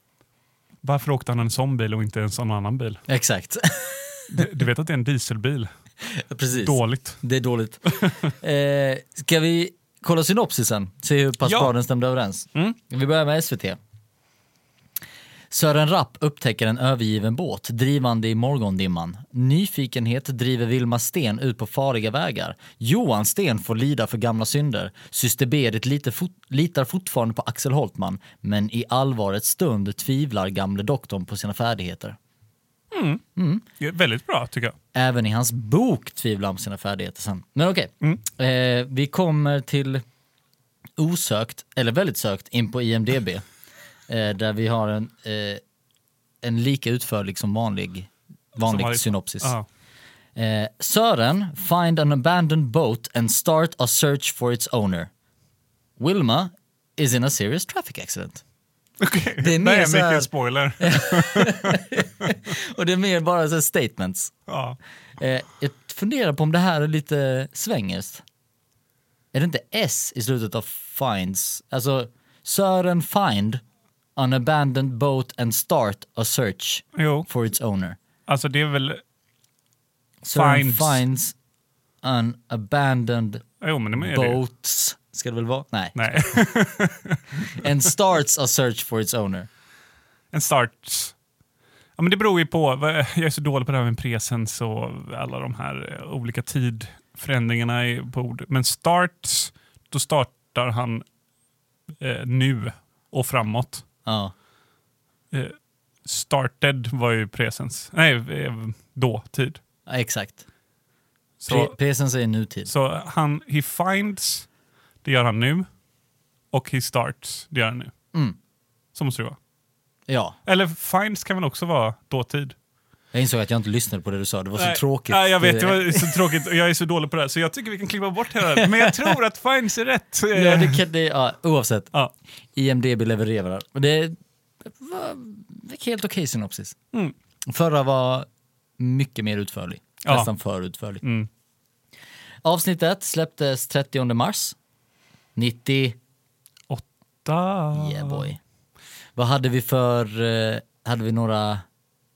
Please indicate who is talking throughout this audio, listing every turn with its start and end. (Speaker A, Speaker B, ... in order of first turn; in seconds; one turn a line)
Speaker A: 0.8-3.0
Speaker B: 3.1-4.5
Speaker A: 4.3-5.7
Speaker B: 6.1-13.8
Speaker A: 6.6-7.2
Speaker A: 11.4-11.7
Speaker B: 15.5-32.2
Speaker A: 32.9-33.2
Speaker B: 33.4-33.6
Speaker A: 33.8-34.8
Speaker B: 34.9-40.0
Speaker B: 41.0-43.4
Speaker B: 44.1-45.6
Speaker B: 46.4-49.6
Speaker A: 48.6-49.7
Speaker B: 50.4-55.1
Speaker B: 56.0-58.4
Speaker A: 59.0-62.3
Speaker B: 59.4-60.3
Speaker B: 60.8-64.3
Speaker A: 64.5-64.8
Speaker B: 65.2-68.2
Speaker B: 69.3-73.6
Speaker B: 74.2-78.0
Speaker A: 76.9-77.3
Speaker A: 78.3-79.0
Speaker B: 80.2-81.3
Speaker A: 80.2-81.0
Speaker B: 82.0-83.4
Speaker A: 83.6-84.4
Speaker B: 83.9-86.4
Speaker A: 85.9-87.7
Speaker B: 87.5-89.5
Speaker A: 90.3-91.1
Speaker A: 92.0-101.0
Speaker A: 102.0-103.8
Speaker B: 104.1-104.3
Speaker A: 105.3-109.6
Speaker B: 109.9-110.4
Speaker A: 111.4-111.7
Speaker B: 111.5-112.7
Speaker A: 112.7-114.5
Speaker A: 115.0-115.7
Speaker A: 116.5-117.9
Speaker A: 118.9-119.4
Speaker B: 120.1-120.4
Speaker A: 120.5-122.6
Speaker B: 123.1-126.4
Speaker A: 124.6-130.8
Speaker B: 128.6-129.1
Speaker B: 130.3-131.9
Speaker B: 132.5-136.8
Speaker B: 137.5-138.3
Speaker B: 138.8-141.0
Speaker A: 140.1-140.3
Speaker A: 141.0-141.3
Speaker B: 142.4-144.6
Speaker B: 145.4-146.0
Speaker A: 146.7-148.3
Speaker B: 147.7-148.4
Speaker B: 149.2-151.6